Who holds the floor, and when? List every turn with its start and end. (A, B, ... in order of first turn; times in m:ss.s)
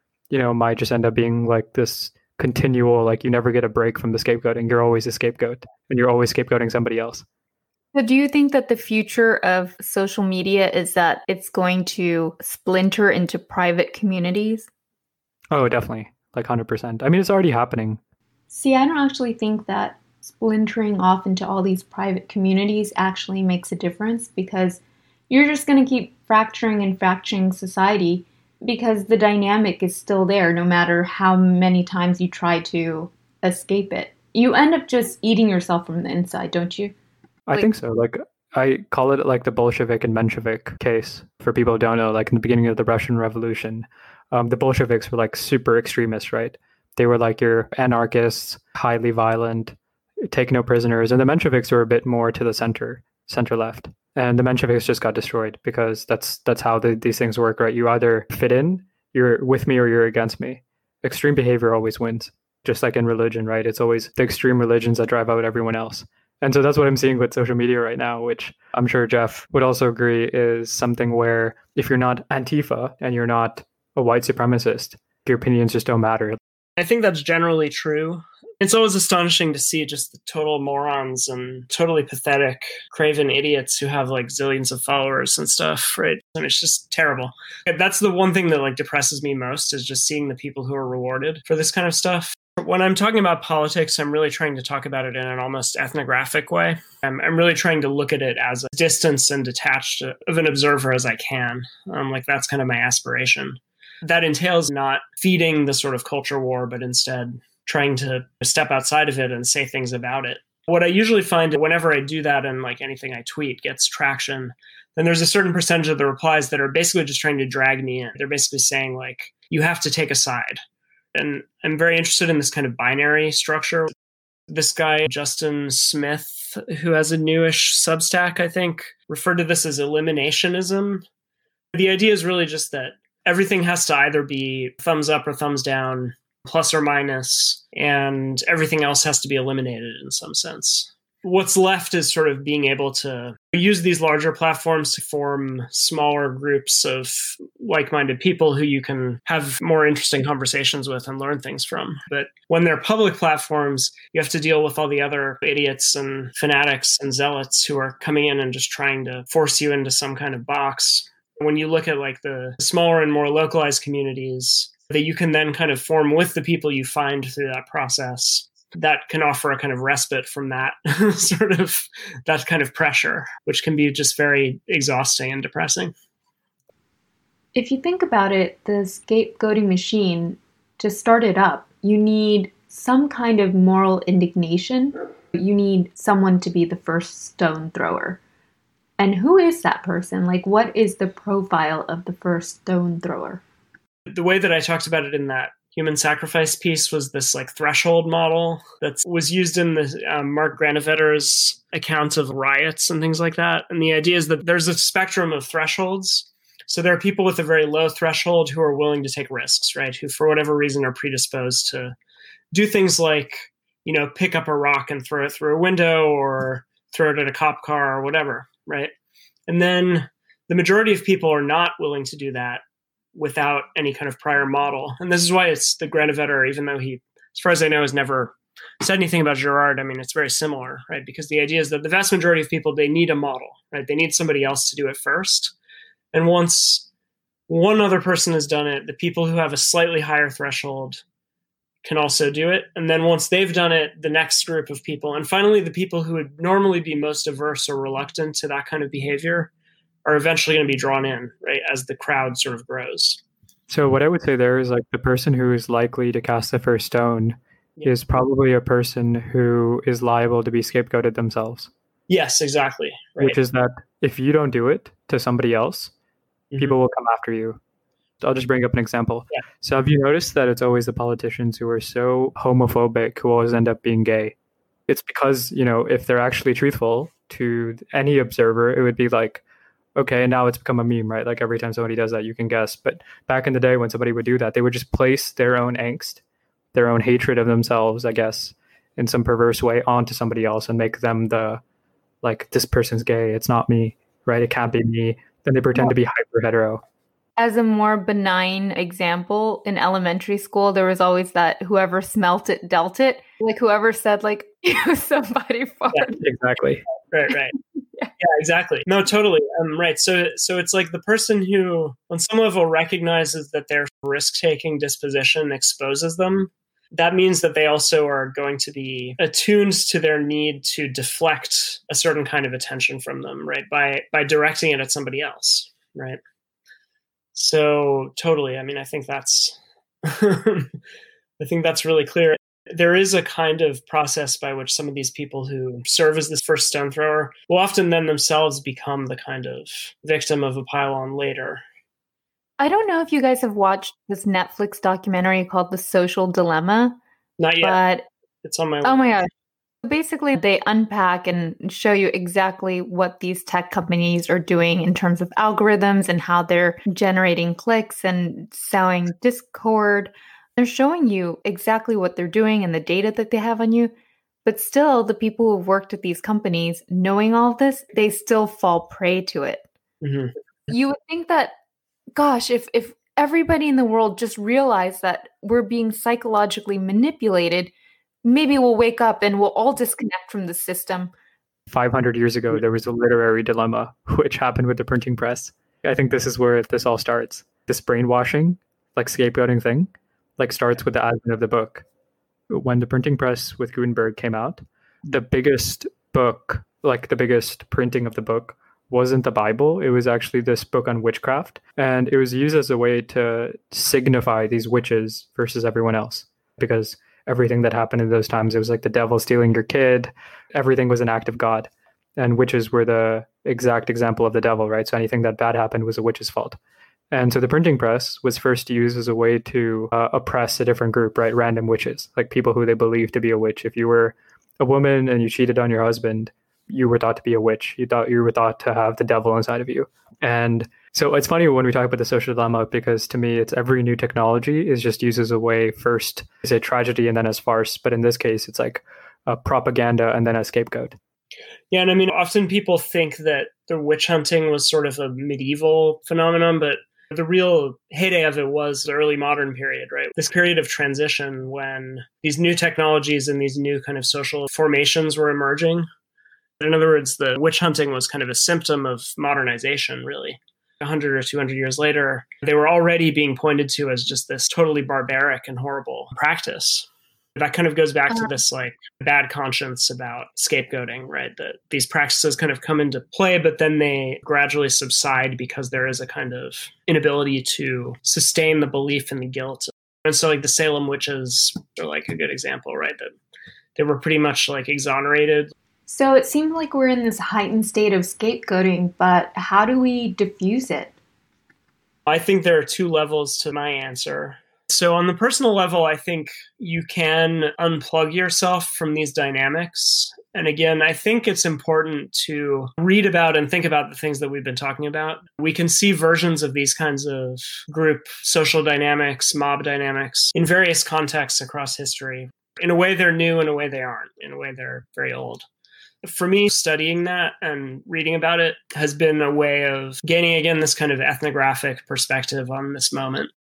0:00.3-0:07.2 A
0:07.9-0:14.7 B
0:15.5-0:18.0 A
0:18.5-0:36.9 B
0:37.5-0:49.8 A
0:50.3-1:16.4 A
1:16.8-2:00.6 C
2:01.1-2:03.9 C
2:04.5-2:11.0 C
2:11.7-2:55.9 C
2:57.5-3:08.2 B
3:09.0-3:13.4 B
3:14.1-3:31.9 C
3:32.5-3:38.9 C
3:39.5-3:42.6 C
3:43.1-3:55.5 C
3:56.1-3:56.9 C
3:57.5-4:01.0 C
4:01.8-4:09.5 C
4:10.0-4:13.2 C
4:13.7-4:21.7 A
4:22.1-4:23.4 C
4:23.2-4:25.9 A
4:26.6-4:27.6 A
4:28.2-4:34.3 A
4:34.9-4:39.4 A
4:40.0-4:46.2 A
4:46.7-4:51.6 A
4:52.2-4:56.8 A
4:57.4-5:06.2 B
5:06.1-5:06.8 A
5:07.1-5:07.6 C
5:08.2-5:26.2 C
5:27.3-5:30.7 C
5:31.4-5:41.6 C
5:42.6-5:47.0 B
5:47.4-5:47.8 C
5:47.6-5:48.0 B
5:48.4-5:49.2 C
5:48.8-5:49.3 B
5:49.8-6:03.9 B
6:04.4-6:09.7 B
6:10.0-6:10.3 C
6:10.7-6:11.5 B
6:12.1-6:17.7 B
6:18.2-6:21.1 B
6:21.7-6:31.8 A
6:32.5-6:56.6 A
6:57.1-7:21.0 A
7:21.7-7:35.9 C
7:36.6-8:03.1 C
8:03.8-8:05.5 C
8:05.9-8:10.9 B
8:12.1-8:35.4 C
8:36.0-8:43.3 C